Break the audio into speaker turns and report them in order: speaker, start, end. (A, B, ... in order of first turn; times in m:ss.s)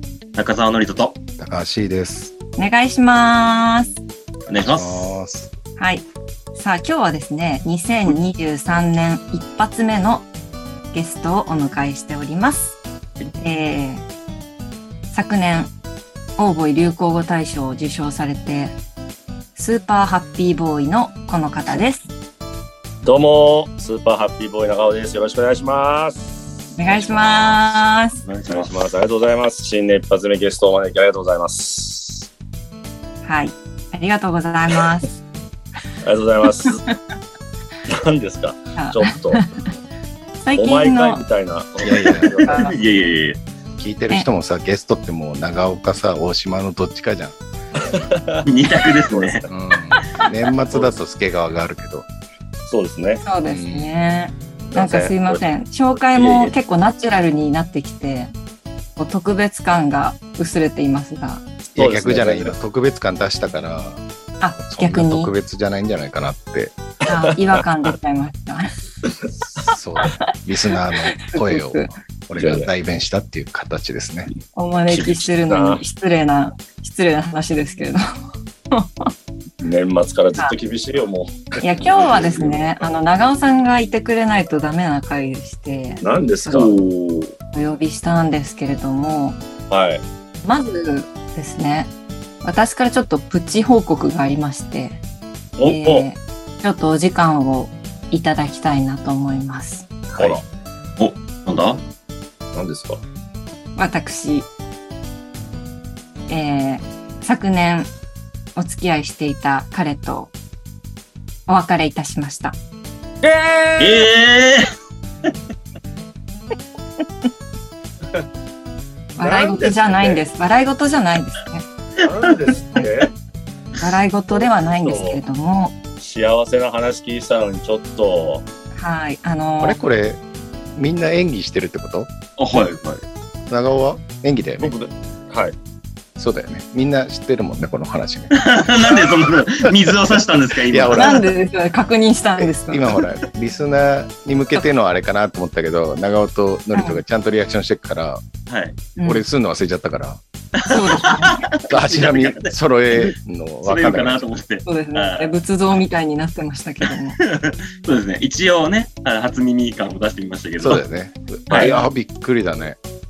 0:00.3-0:01.2 A
0:01.4-0:02.3 B
0:02.6-0:04.0 C
0:04.5-0:05.1 A
0:04.6-0:05.5 B
0:05.8-0:06.0 C
0:06.5-0:10.3 C
0:10.9-0:12.8 C
0:13.4-0:14.0 C
0:15.1-0:15.7 C
0:16.4-0:18.8 C
0:19.5-0:22.1 C
0:23.0-0:27.7 D
0:26.8-0:28.2 C
0:28.2-0:28.9 A
0:28.5-0:32.3 D
0:33.2-0:35.1 C
0:36.0-0:36.8 D
0:36.6-0:36.9 C
0:37.9-0:39.4 D
0:38.8-0:39.6 C
0:40.4-0:41.2 C
0:40.6-0:42.7 D
0:41.8-0:42.4 B
0:42.4-0:42.8 C
0:42.5-0:43.4 A
0:43.8-0:47.4 B
0:47.8-0:49.4 D
0:48.4-0:49.5 A
0:49.5-0:52.1 B
0:50.7-0:51.0 D
0:52.7-0:53.2 D
0:53.2-0:58.3 C
0:53.5-0:53.9 B
0:54.7-0:55.4 D
0:56.1-0:56.5 D
0:59.0-1:01.4 C
1:01.6-1:02.5 D
1:01.8-1:04.0 B
1:04.4-1:05.3 C
1:04.7-1:06.7 B
1:07.1-1:08.7 C
1:07.1-1:07.6 D
1:09.5-1:14.3 B
1:11.2-1:11.9 C
1:12.4-1:12.7 D
1:14.5-1:18.0 C
1:14.9-1:15.8 D
1:18.7-1:19.1 C
1:19.6-1:22.9 D
1:21.6-1:26.8 C
1:26.0-1:27.3 D
1:27.5-1:29.4 C
1:29.7-1:30.0 D
1:30.4-1:31.9 C
1:32.4-1:35.0 C
1:35.6-1:36.0 D
1:35.6-1:39.9 C
1:40.1-1:40.4 D
1:41.0-1:41.8 A
1:42.5-1:43.0 D
1:43.8-1:44.5 C
1:46.3-1:47.9 C
1:48.6-1:50.3 C
1:51.5-1:52.6 C
1:53.2-1:54.1 D
1:53.8-1:54.7 A
1:59.2-2:01.6 C
1:59.2-2:00.2 D
2:02.0-2:03.1 D
2:03.8-2:05.8 C
2:04.3-2:05.2 D
2:06.0-2:08.4 D
2:08.7-2:09.8 C
2:09.6-2:10.2 B
2:10.8-2:12.1 B
2:12.4-2:13.0 A
2:13.5-2:14.7 B
2:14.6-2:15.5 D
2:16.2-2:19.3 B
2:18.3-2:21.2 A
2:19.8-2:21.2 B
2:20.9-2:22.9 C
2:22.4-2:28.2 B
2:26.7-2:27.0 C
2:28.5-2:28.8 A
2:29.0-2:29.2 C
2:29.0-2:30.2 B
2:30.6-2:35.3 A
2:30.7-2:31.5 C
2:31.7-2:34.3 B
2:34.6-2:37.2 C
2:36.8-2:40.8 A
2:40.6-2:42.8 B
2:41.5-2:41.8 D